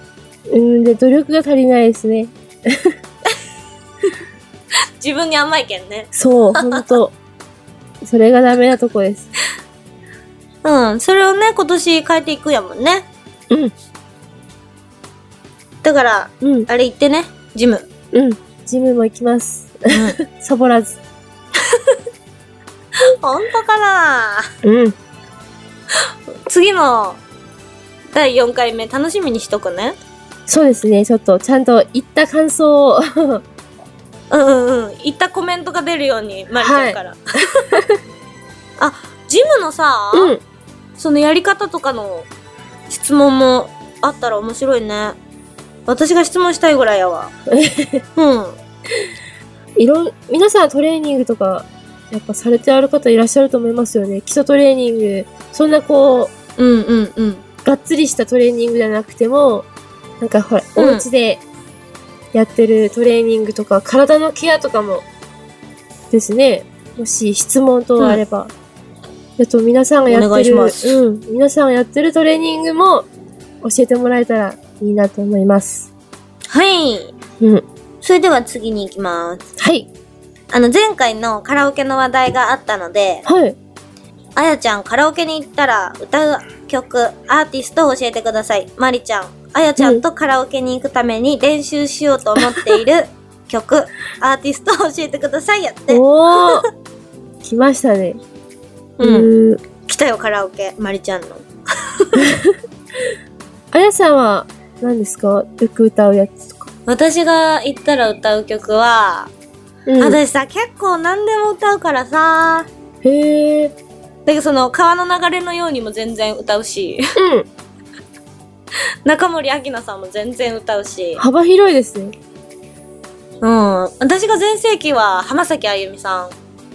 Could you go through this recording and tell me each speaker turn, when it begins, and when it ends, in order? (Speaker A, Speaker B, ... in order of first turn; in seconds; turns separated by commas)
Speaker A: 0.5-2.9, Speaker B: 5.0-6.8, Speaker A: 6.1-7.2, Speaker A: 8.0-9.3, Speaker B: 10.6-13.1, Speaker B: 15.8-17.9, Speaker A: 16.4-16.7, Speaker A: 18.1-21.0, Speaker B: 19.9-20.2, Speaker B: 21.7-22.0, Speaker B: 23.0-24.5, Speaker A: 24.6-25.0, Speaker B: 25.9-27.2, Speaker B: 28.1-30.0, Speaker A: 30.5-33.4, Speaker B: 34.3-37.8, Speaker A: 36.6-37.0, Speaker A: 37.5-38.0, Speaker B: 38.8-40.4, Speaker A: 40.1-40.4, Speaker B: 41.0-42.3, Speaker B: 42.9-45.2, Speaker B: 45.9-47.3, Speaker A: 47.5-48.0, Speaker B: 48.2-48.6, Speaker A: 49.8-56.3, Speaker B: 56.6-57.4, Speaker A: 57.6-59.7, Speaker A: 60.2-61.4, Speaker B: 60.8-61.1, Speaker A: 62.3-65.0, Speaker A: 66.1-68.5, Speaker A: 69.4-73.1, Speaker B: 70.1-71.0, Speaker A: 73.6-75.9, Speaker B: 76.5-77.2, Speaker B: 78.0-79.5, Speaker A: 79.6-79.9, Speaker B: 80.5-83.2, Speaker A: 83.3-83.6, Speaker B: 84.4-96.7, Speaker A: 95.9-96.7, Speaker A: 97.4-98.2, Speaker B: 99.0-99.3, Speaker A: 99.0-99.6, Speaker B: 99.8-102.2, Speaker A: 102.2-102.5, Speaker A: 103.7-106.7, Speaker B: 106.9-109.3, Speaker A: 109.9-110.2, Speaker B: 110.0-112.7, Speaker A: 113.0-113.8, Speaker B: 114.3-117.2, Speaker A: 117.2-117.5, Speaker B: 119.0-121.2, Speaker A: 121.2-122.2, Speaker B: 123.4-126.3